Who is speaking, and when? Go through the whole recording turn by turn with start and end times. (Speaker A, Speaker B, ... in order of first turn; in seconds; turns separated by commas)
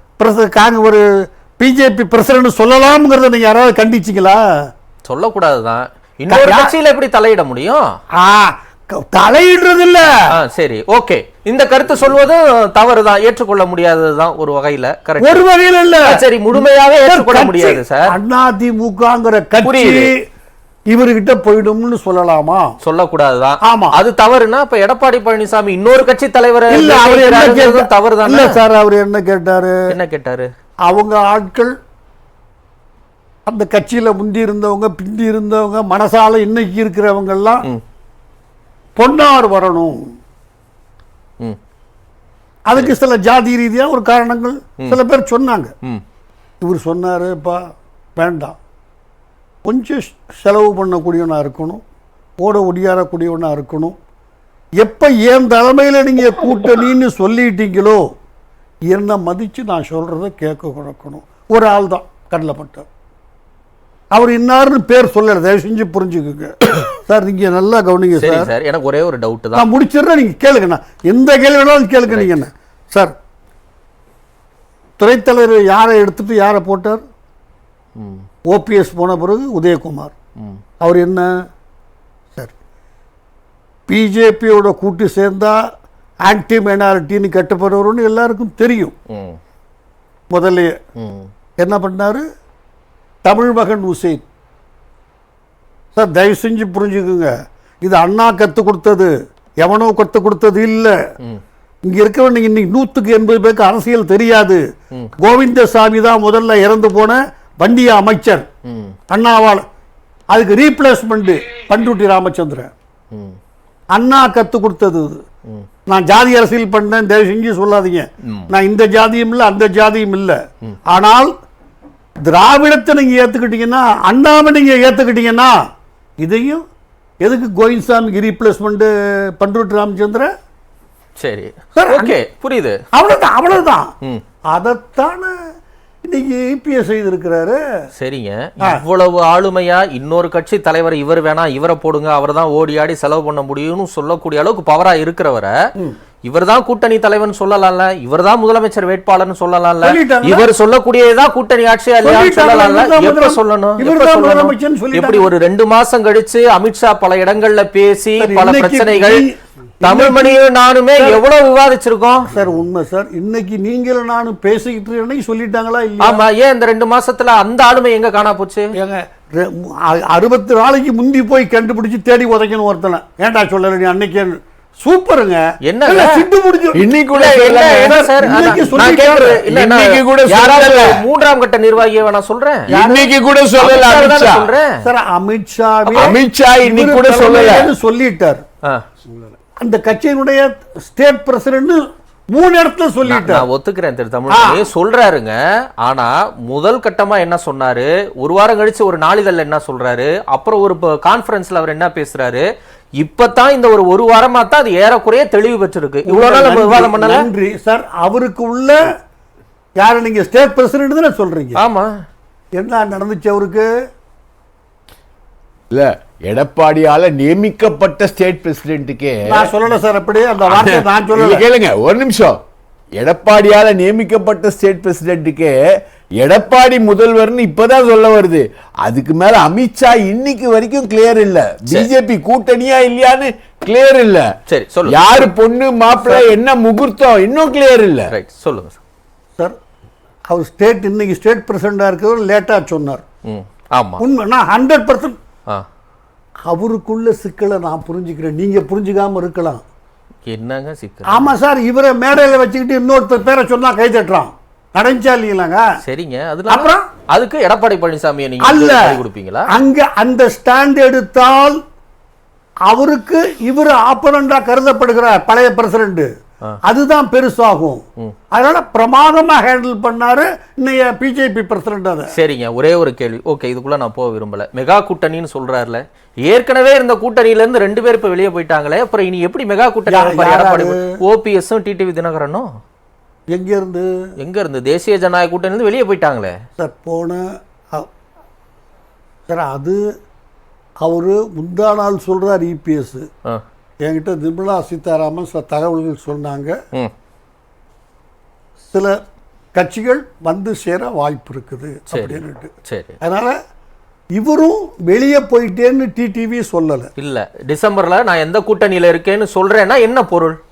Speaker A: 0.2-1.0, Speaker A: 1.6-4.4, Speaker B: 5.1-7.8, Speaker A: 6.3-6.7, Speaker A: 8.2-10.1, Speaker B: 10.3-15.4, Speaker A: 15.2-20.2, Speaker B: 16.0-18.1, Speaker B: 19.6-20.1, Speaker A: 20.9-22.7, Speaker B: 22.8-28.6, Speaker A: 23.7-24.0, Speaker A: 26.7-29.8, Speaker B: 29.9-30.5, Speaker A: 30.9-31.7, Speaker A: 33.5-37.7, Speaker A: 39.0-40.0, Speaker A: 42.7-45.7, Speaker A: 46.6-47.6, Speaker A: 48.2-48.6, Speaker A: 49.7-51.8, Speaker A: 52.4-54.0, Speaker A: 54.8-58.0, Speaker A: 58.9-62.9, Speaker A: 64.1-68.5, Speaker B: 68.2-69.7, Speaker A: 69.5-73.1, Speaker B: 72.1-72.4, Speaker A: 75.0-77.0, Speaker B: 78.0-78.2, Speaker A: 78.5-80.1, Speaker A: 80.8-81.3, Speaker A: 83.9-85.6, Speaker A: 86.2-88.9, Speaker B: 89.1-89.4, Speaker A: 90.3-90.7, Speaker B: 91.0-91.3, Speaker A: 91.6-92.2, Speaker A: 93.2-94.2, Speaker A: 95.9-97.3, Speaker A: 97.8-100.9, Speaker A: 101.8-104.6, Speaker A: 105.2-108.5, Speaker B: 108.7-108.9, Speaker A: 109.1-109.6, Speaker A: 110.3-112.7, Speaker B: 113.1-113.4, Speaker A: 113.9-115.2, Speaker A: 115.9-120.4, Speaker A: 120.9-121.3, Speaker A: 122.2-125.5, Speaker A: 126.2-126.6, Speaker A: 127.2-130.3, Speaker B: 131.2-132.8, Speaker A: 131.7-132.2, Speaker A: 132.9-133.9, Speaker A: 134.5-135.3, Speaker A: 136.0-137.6, Speaker B: 138.0-145.5, Speaker B: 146.2-159.2, Speaker A: 149.8-150.5, Speaker A: 152.0-155.3, Speaker A: 158.2-160.4, Speaker B: 159.8-162.3, Speaker A: 161.0-161.2, Speaker A: 162.3-166.2, Speaker B: 166.0-168.7, Speaker A: 168.7-179.4, Speaker B: 175.6-176.2, Speaker C: 176.7-181.0, Speaker B: 177.1-182.7, Speaker A: 182.7-183.1, Speaker C: 182.8-184.5, Speaker B: 183.6-184.8, Speaker A: 184.8-188.4, Speaker C: 185.9-187.7, Speaker A: 189.6-193.5, Speaker B: 193.1-202.5, Speaker A: 194.3-194.7, Speaker B: 203.0-207.3, Speaker A: 206.1-208.9, Speaker A: 209.8-211.6, Speaker B: 211.6-211.9, Speaker A: 212.6-213.7, Speaker C: 215.7-219.5, Speaker A: 219.3-221.4, Speaker C: 220.5-222.4, Speaker C: 223.0-225.6, Speaker C: 226.2-234.3, Speaker B: 234.5-235.3, Speaker C: 234.9-238.1, Speaker B: 238.1-238.8, Speaker A: 240.3-243.0, Speaker B: 243.3-244.0, Speaker A: 244.0-245.2, Speaker A: 246.5-249.6, Speaker B: 250.3-251.3, Speaker A: 251.1-255.6, Speaker B: 255.8-259.5, Speaker A: 256.5-256.9, Speaker A: 258.4-258.9, Speaker A: 259.5-261.6, Speaker A: 262.7-266.1, Speaker A: 266.6-272.1, Speaker B: 272.1-282.5, Speaker A: 279.9-280.9, Speaker A: 283.3-283.9, Speaker B: 284.2-286.4, Speaker A: 286.6-287.9, Speaker A: 289.3-289.8, Speaker A: 290.8-293.1, Speaker A: 293.9-296.6, Speaker A: 299.6-303.4, Speaker B: 301.9-303.0, Speaker A: 304.1-306.9, Speaker B: 307.0-310.4